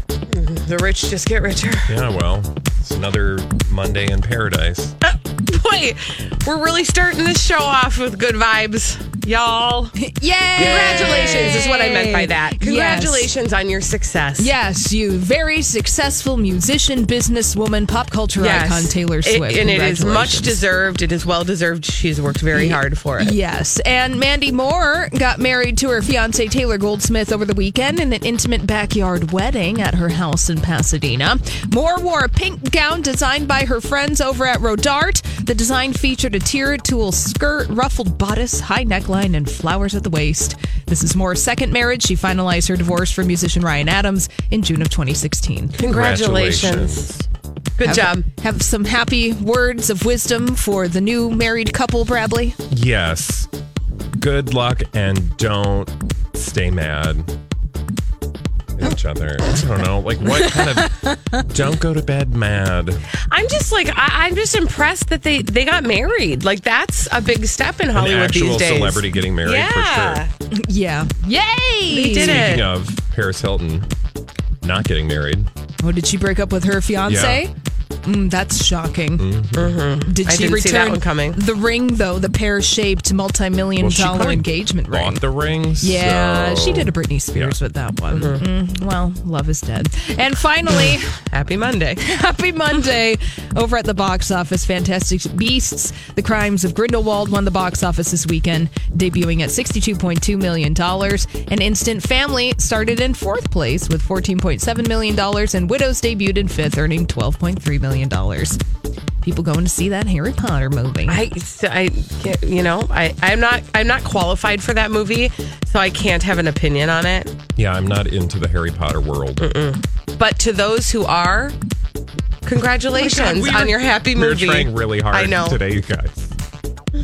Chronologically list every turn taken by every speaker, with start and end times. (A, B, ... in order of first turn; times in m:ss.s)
0:00.3-0:01.9 A
0:01.9-0:04.9 B
0:05.1-0:10.0 A
0:10.0-0:13.3 C
0:10.6-0:14.5 A
0:14.4-0:20.6 C
0:18.4-0:23.4 A
0:22.5-0:45.8 C
0:45.8-0:47.1 A
0:45.9-0:47.3 B
0:47.8-0:48.3 A
0:47.8-0:52.6 C
0:52.7-0:53.5 B
0:54.2-0:57.3 B
0:58.8-1:03.0 B
1:03.3-1:10.3 A
1:07.9-1:10.2 B
1:10.5-1:12.5 C
1:11.9-1:12.7 A
1:12.2-1:13.9 B
1:14.6-1:15.5 B
1:15.8-1:17.5 C
1:17.1-1:17.4 B
1:18.0-1:19.3 C
1:19.2-1:19.8 B
1:19.6-1:21.4 A
1:20.0-1:25.2 C
1:23.8-1:27.6 B
1:25.8-1:31.2 C
1:28.1-1:28.4 A
1:30.7-1:32.0 A
1:32.0-1:48.6 C
1:49.2-1:51.2 C
1:51.1-1:57.4 A
1:57.6-1:59.5 B
1:59.4-2:01.6 A
2:02.4-2:05.6 A
2:02.9-2:06.3 B